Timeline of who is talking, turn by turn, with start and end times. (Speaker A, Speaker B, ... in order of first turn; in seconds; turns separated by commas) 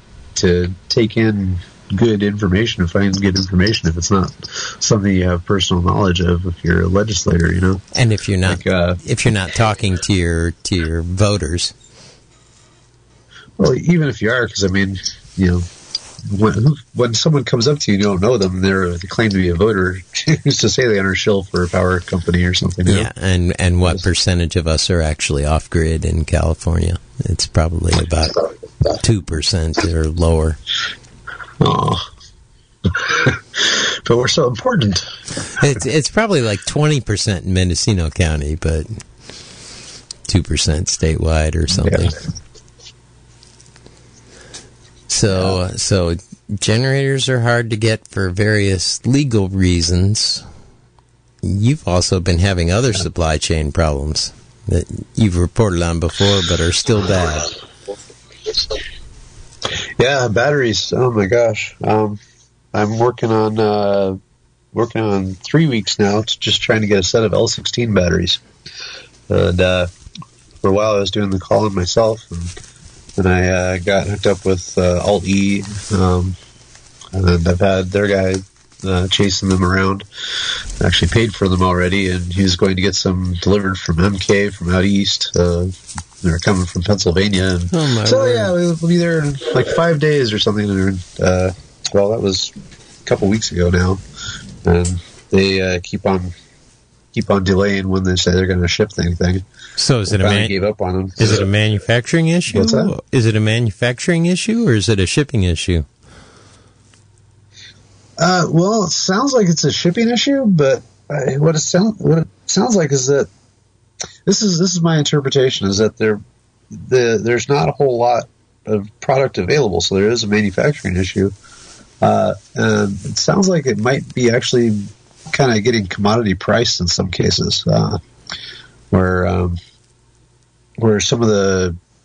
Speaker A: 0.3-7.8, Speaker B: 7.9-11.7, Speaker A: 8.4-9.0, Speaker A: 13.6-15.7, Speaker A: 16.2-23.1, Speaker B: 22.9-30.6, Speaker A: 31.6-32.0, Speaker A: 32.9-35.1, Speaker B: 35.5-39.0, Speaker B: 40.3-42.1, Speaker A: 41.7-42.1, Speaker B: 45.1-50.5, Speaker A: 45.3-45.6, Speaker B: 51.4-57.5, Speaker A: 60.0-62.2, Speaker A: 62.7-64.2, Speaker A: 64.7-68.4, Speaker A: 69.3-69.9, Speaker A: 70.6-72.5, Speaker A: 73.2-76.3, Speaker A: 77.1-80.0, Speaker A: 80.8-92.5, Speaker B: 87.7-88.5, Speaker A: 93.0-94.0, Speaker A: 94.6-96.3, Speaker A: 97.1-99.4, Speaker B: 99.8-100.5, Speaker A: 100.1-101.5, Speaker B: 101.2-105.8, Speaker A: 102.5-102.9, Speaker A: 108.2-113.3, Speaker A: 114.2-121.3, Speaker A: 122.0-128.0, Speaker A: 128.9-129.6, Speaker A: 130.8-131.8